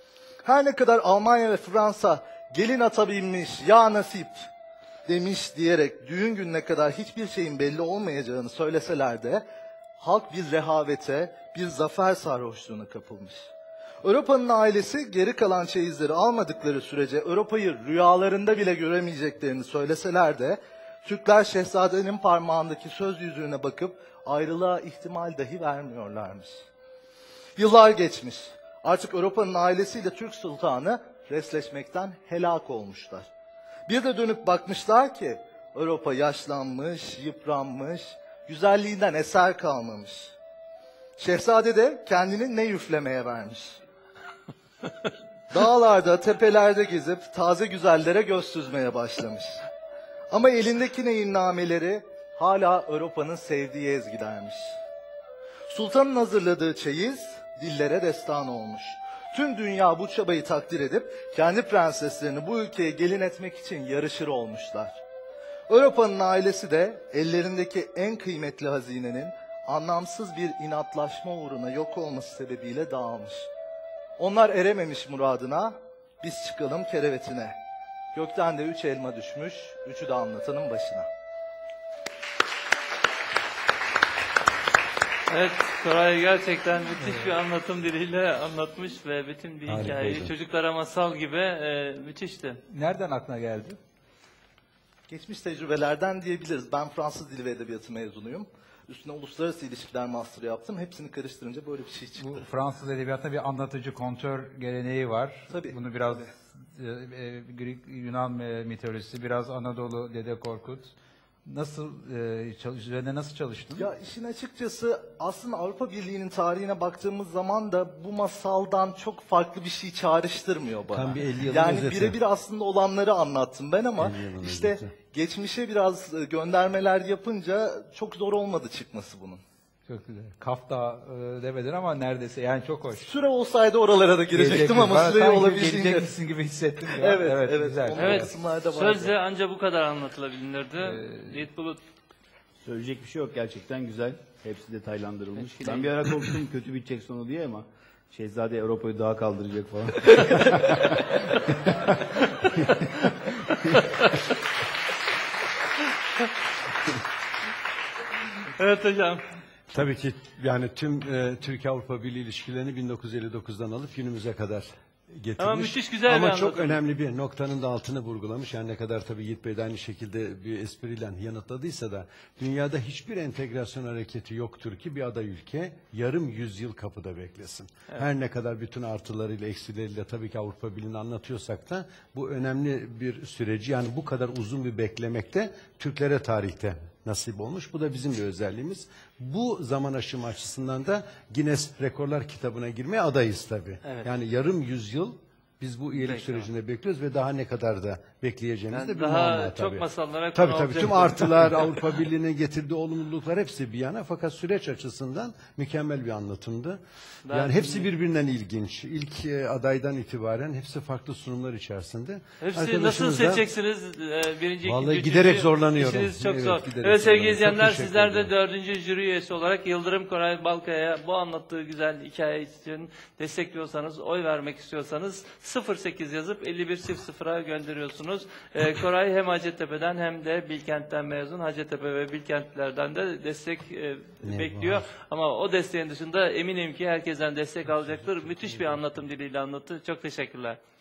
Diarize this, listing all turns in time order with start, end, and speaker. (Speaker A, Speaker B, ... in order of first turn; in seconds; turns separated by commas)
Speaker A: 0.5-4.5, Speaker A: 5.1-9.4, Speaker A: 10.0-13.5, Speaker A: 14.0-26.6, Speaker A: 27.6-33.2, Speaker A: 33.9-40.4, Speaker A: 41.2-43.8, Speaker A: 45.5-49.6, Speaker A: 50.3-54.8, Speaker A: 55.7-65.0, Speaker A: 65.7-73.5, Speaker A: 74.2-77.6, Speaker A: 78.1-81.1, Speaker B: 85.3-92.6, Speaker C: 89.7-90.3, Speaker D: 92.7-93.8, Speaker A: 95.1-102.5, Speaker D: 102.2-110.9, Speaker A: 105.5-106.3, Speaker D: 111.5-113.9, Speaker A: 113.8-129.4, Speaker C: 120.9-122.2, Speaker C: 124.0-124.9, Speaker D: 129.9-133.1, Speaker A: 133.0-136.2, Speaker D: 134.3-138.3, Speaker A: 136.9-139.2, Speaker B: 137.9-141.8, Speaker D: 140.8-141.3, Speaker E: 142.6-150.9, Speaker B: 153.8-154.1, Speaker B: 158.6-159.2, Speaker C: 159.7-213.5, Speaker B: 165.4-166.7, Speaker B: 195.9-196.5, Speaker B: 198.7-201.7, Speaker B: 207.3-207.9, Speaker B: 212.4-240.6, Speaker C: 214.6-218.3, Speaker C: 234.2-234.8, Speaker C: 237.9-238.8